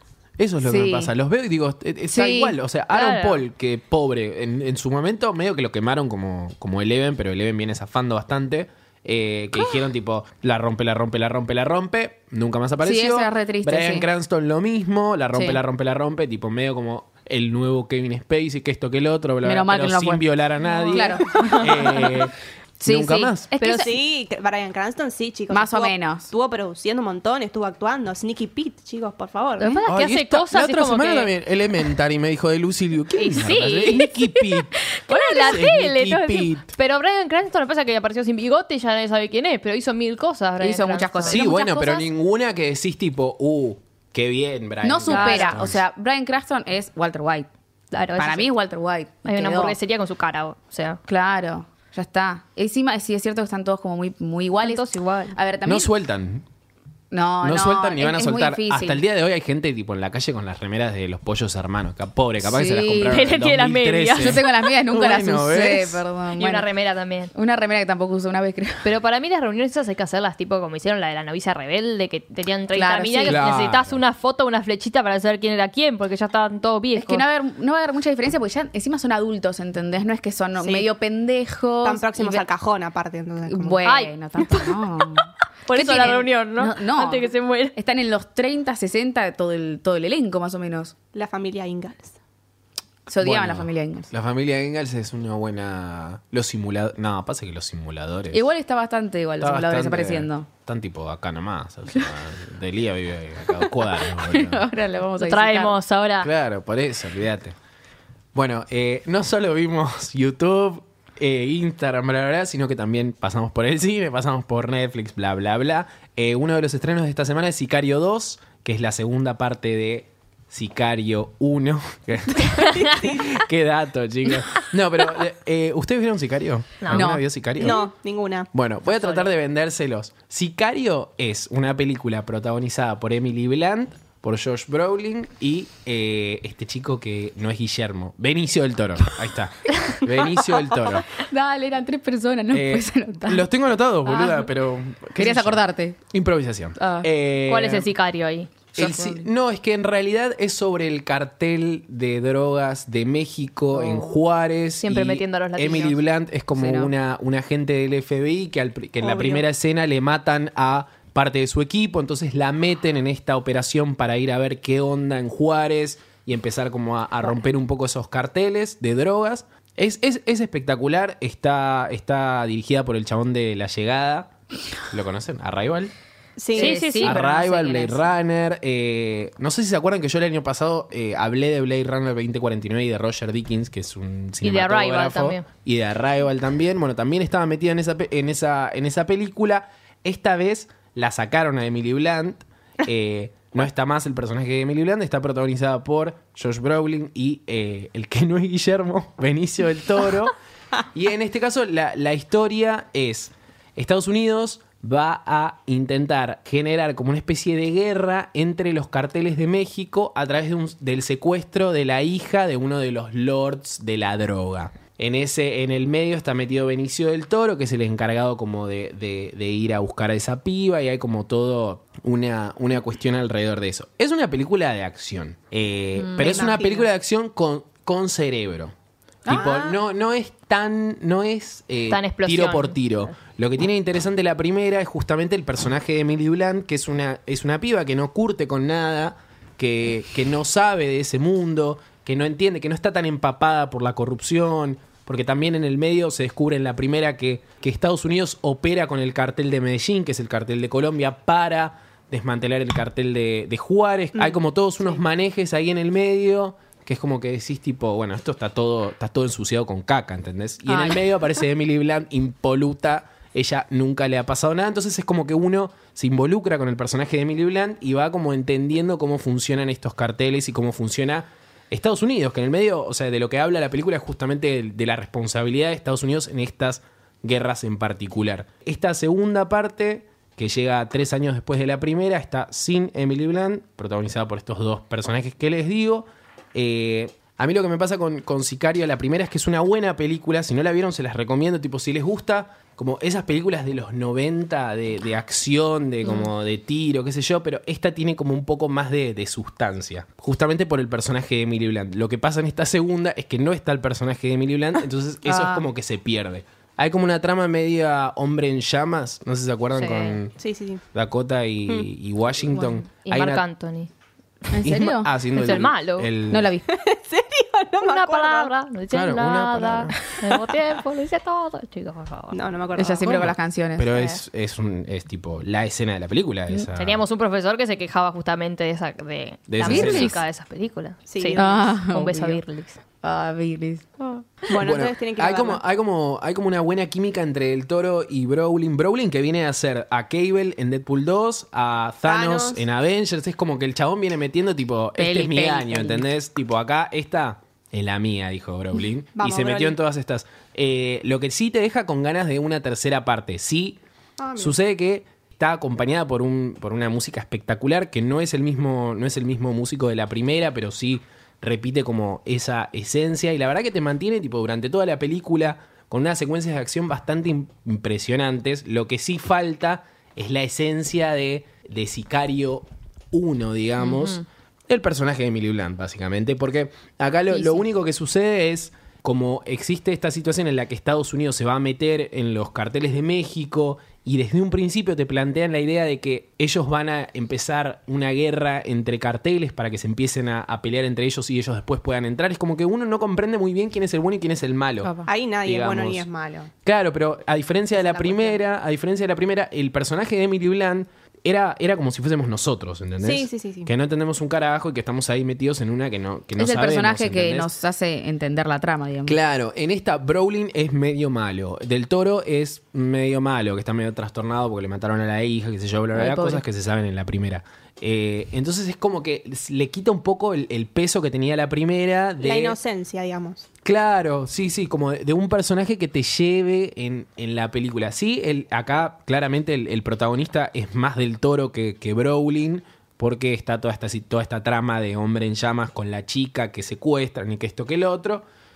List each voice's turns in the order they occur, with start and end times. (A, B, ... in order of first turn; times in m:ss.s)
0:00.4-0:22.3 A
0:00.6-0:01.1 B
0:02.1-0:02.6 B
0:02.9-0:03.4 C
0:12.8-0:14.1 B
0:15.3-0:15.6 B
0:19.4-0:20.2 B
0:20.7-0:21.6 D
0:20.9-0:22.2 B
0:22.8-0:24.0 B
0:22.8-0:23.5 A
0:23.6-0:23.9 C
0:23.7-0:29.7 D
0:25.5-0:26.3 B
0:29.6-0:31.3 C
0:29.9-0:36.7 A
0:33.2-0:41.8 C
0:40.6-0:41.9 B
0:41.2-0:45.8 A
0:44.8-0:47.5 B
0:45.1-0:45.6 C
0:47.9-0:48.5 C
0:48.2-0:49.8 B
0:49.2-0:51.0 C
0:51.1-0:55.9 B
0:54.6-0:55.4 C
0:55.6-0:56.4 A
0:57.1-0:59.0 B
0:57.4-1:06.0 A
1:02.4-1:03.3 B
1:03.1-1:04.4 C
1:04.2-1:06.7 B
1:06.4-1:07.3 C
1:07.3-1:08.9 B
1:08.8-1:17.2 C
1:12.7-1:13.4 B
1:13.2-1:14.0 A
1:17.0-1:22.4 B
1:20.6-1:20.9 D
1:21.8-1:23.8 D
1:23.4-1:30.9 B
1:23.8-1:27.7 C
1:31.1-1:32.2 D
1:33.1-1:34.1 B
1:33.2-1:38.4 A
1:38.3-1:40.5 B
1:39.4-1:44.6 A
1:43.5-1:45.7 B
1:45.2-1:46.3 C
1:46.2-1:47.5 A
1:48.3-2:07.8 A
2:02.7-2:03.2 D
2:06.8-2:07.1 C
2:06.9-2:07.2 B
2:07.6-2:08.5 D
2:08.5-2:21.1 A
2:08.9-2:09.3 C
2:21.1-2:23.5 B
2:22.5-2:27.9 A
2:25.2-2:26.0 B
2:26.8-2:27.1 B
2:27.4-2:28.5 C
2:28.7-2:54.3 A
2:28.8-2:29.3 B
2:33.7-2:34.1 B
2:34.8-2:36.0 C
2:36.5-2:36.9 B
2:39.0-2:39.4 D
2:54.9-2:55.9 A
2:56.4-2:56.8 D
2:56.5-2:58.0 B
2:56.6-2:57.3 C
2:57.0-3:20.3 A
3:04.4-3:05.4 C
3:20.9-3:48.7 A
3:46.0-3:46.5 B
3:46.2-3:46.8 D
3:49.2-3:49.6 B
3:49.2-5:10.3 A
3:49.3-3:49.8 D
3:51.9-3:52.8 C
4:14.1-4:15.0 D
4:20.7-4:21.0 B
5:05.3-5:05.6 B
5:09.8-5:10.2 C
5:10.4-5:10.8 D
5:10.9-5:13.4 A
5:13.0-5:13.9 C
5:14.5-5:15.6 B
5:14.6-5:16.5 A
5:15.3-5:16.1 C
5:16.3-5:16.7 B
5:16.7-5:18.5 D
5:17.8-5:22.4 C
5:18.9-5:20.0 A
5:22.3-5:23.3 D
5:22.8-5:24.2 B
5:23.0-5:27.0 A
5:26.7-5:32.8 C
5:29.5-5:30.2 A
5:29.6-5:30.2 B
5:31.1-5:31.7 D
5:31.4-5:32.4 B
5:33.0-5:34.3 B
5:34.5-5:35.6 D
5:34.5-5:53.8 A
5:42.0-5:42.6 D
5:45.0-5:46.0 B
5:49.2-5:49.8 D
5:54.2-5:54.5 D
5:54.4-6:36.0 A
6:13.8-6:14.2 B
6:17.3-6:17.6 B
6:34.8-6:35.1 B
6:35.0-6:36.5 D
6:36.6-6:47.5 A
6:37.8-6:38.4 D
6:43.0-6:43.7 D
6:46.4-6:49.2 B
6:49.0-7:02.6 A
6:55.9-6:56.4 B
7:02.2-7:03.4 D
7:03.6-7:18.2 A